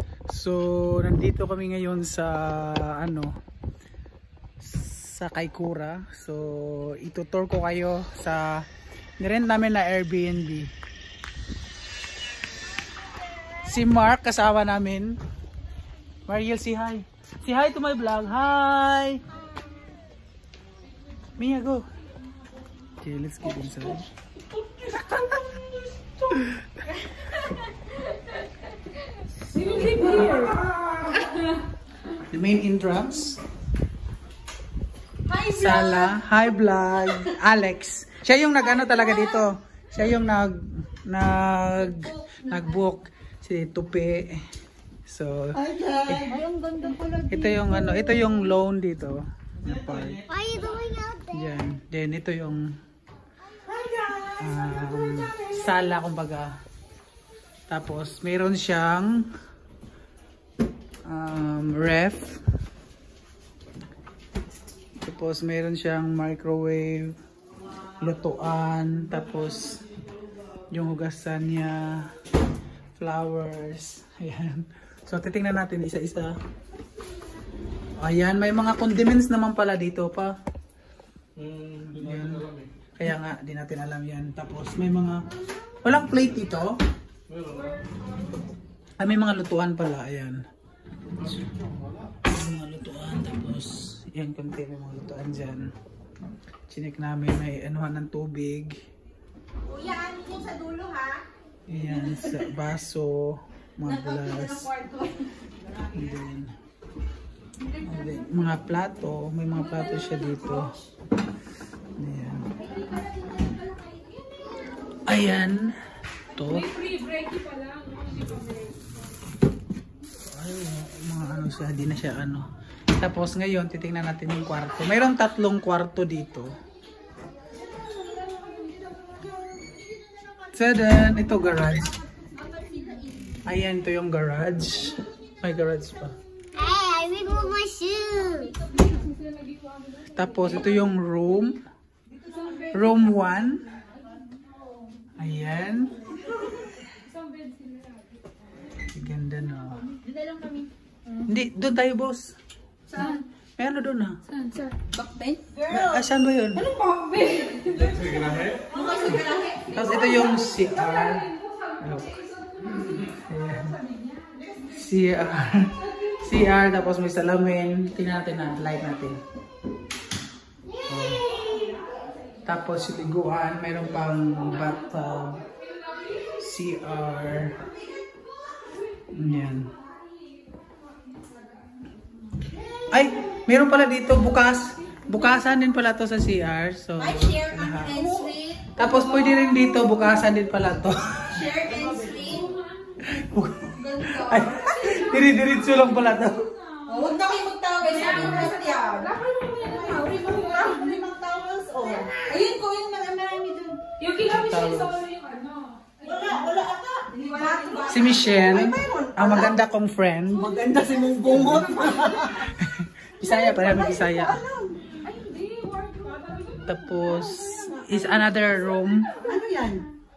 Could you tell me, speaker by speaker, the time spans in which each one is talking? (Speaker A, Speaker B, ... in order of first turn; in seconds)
Speaker A: 0.3-3.4, 4.6-8.7, 9.2-10.7, 13.6-15.2, 16.3-19.2, 21.4-21.8, 23.0-24.1, 24.9-25.4, 26.3-26.7, 29.6-30.1, 32.1-33.4, 35.5-44.4, 45.1-46.3, 47.3-50.3, 51.2-52.8, 54.4-56.5, 57.7-59.3, 61.1-62.4, 65.0-67.2, 68.0-69.8, 70.7-72.1, 73.0-76.4, 78.0-80.3, 81.6-85.3, 85.8-86.8, 89.0-90.4, 92.2-95.7, 96.7-98.7, 101.7-104.7, 105.8-106.5, 107.8-110.7, 112.0-112.6, 115.0-115.8, 116.3-116.8, 120.2-126.5, 130.5-132.0, 133.4-136.2, 140.1-141.6, 142.7-143.7, 145.2-146.2, 148.9-149.9, 151.2-152.3, 153.1-154.2, 155.7-156.7, 159.7-162.3, 162.9-163.8, 164.6-169.2, 170.9-171.3, 172.5-175.5, 176.2-177.6, 179.1-179.8, 182.9-188.0, 188.8-191.4, 193.0-196.5, 204.2-205.0, 207.9-210.7, 211.3-214.4, 216.6-219.2
Speaker B: 29.5-30.7, 113.7-114.0, 116.6-118.8, 138.5-139.9, 146.9-148.1, 157.0-158.8, 197.8-200.8, 204.0-206.3, 207.2-207.9, 210.7-212.3, 215.0-216.6, 219.0-219.4
Speaker C: 35.3-36.2, 39.1-39.5, 41.9-42.7, 45.6-48.3, 53.7-54.4, 99.7-101.2, 103.8-106.0, 112.8-114.3, 132.1-133.4, 142.2-142.9, 149.9-151.2, 152.9-153.2, 154.3-156.0, 156.7-158.0, 158.5-159.9, 187.0-188.8, 191.2-192.6, 193.8-194.9, 196.9-203.9, 206.0-209.5, 210.4-212.4, 213.2-215.0, 219.2-219.9
Speaker D: 50.3-51.3, 136.6-138.5